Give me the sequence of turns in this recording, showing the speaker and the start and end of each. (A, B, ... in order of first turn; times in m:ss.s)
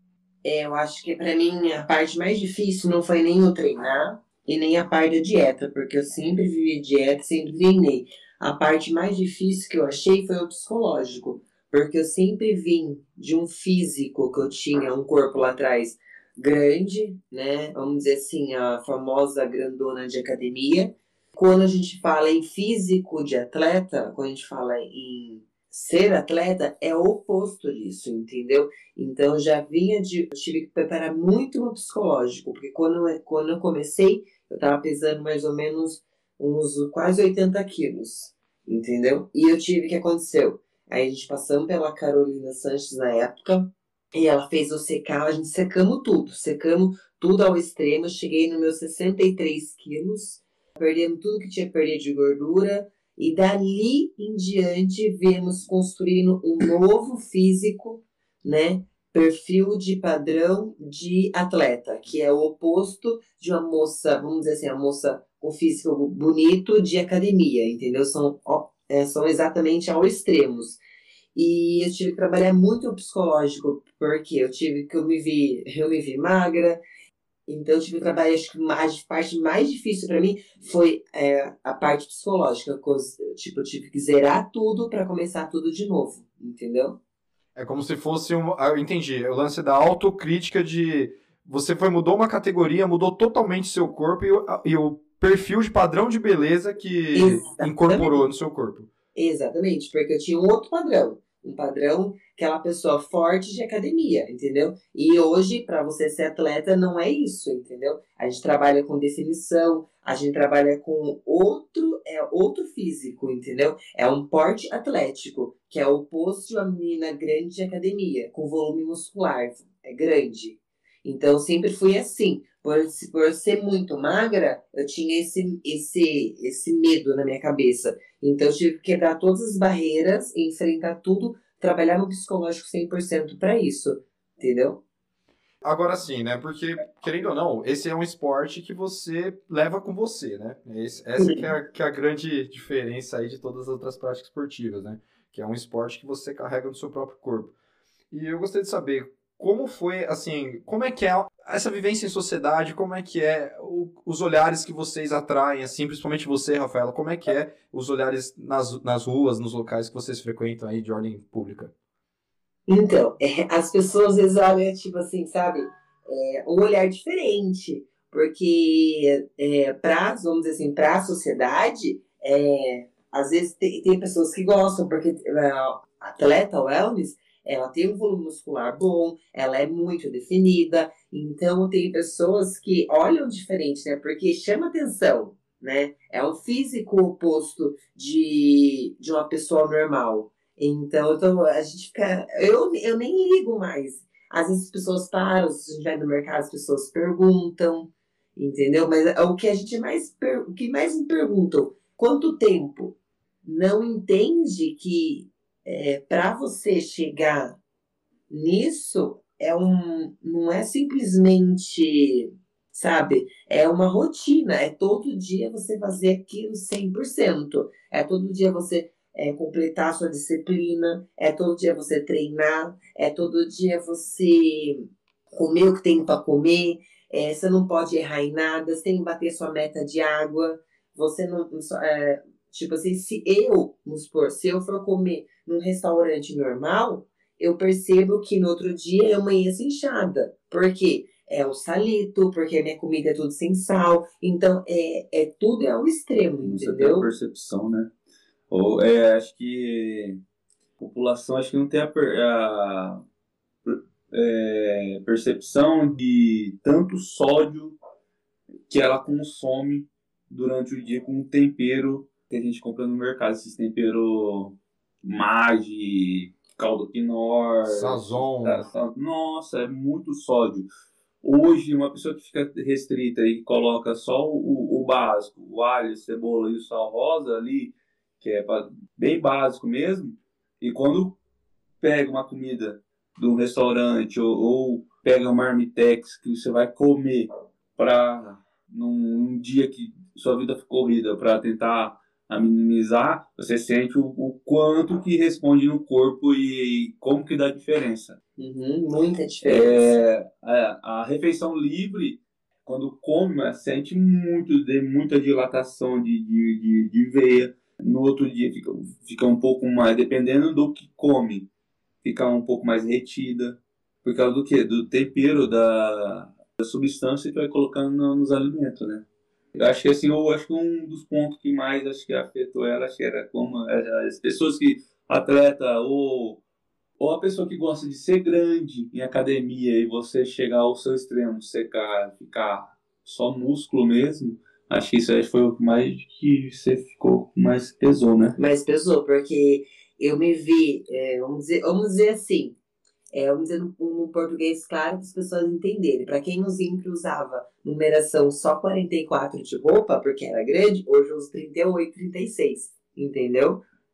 0:00.4-1:10.8 A
1:11.3-1:16.8 A
1:17.5-1:27.0 A
1:27.5-1:38.9 B
1:37.1-1:38.2 A
1:39.1-2:14.8 A
2:15.6-2:27.5 B
2:21.2-2:21.4 A
2:28.1-2:41.7 B
2:42.7-3:27.6 A
3:28.3-4:07.1 A
4:06.4-4:07.9 C
4:08.5-4:10.2 C
4:10.8-4:13.0 C
4:13.6-4:17.7 C
4:18.7-4:30.7 C
4:27.6-4:28.6 B
4:31.2-4:41.2 C
4:41.8-4:58.2 C
4:58.4-5:00.0 A
4:59.4-5:11.4 C
5:12.0-5:19.0 C
5:19.6-5:26.4 C
5:27.0-5:38.4 C
5:38.4-5:42.6 A
5:43.1-5:53.6 A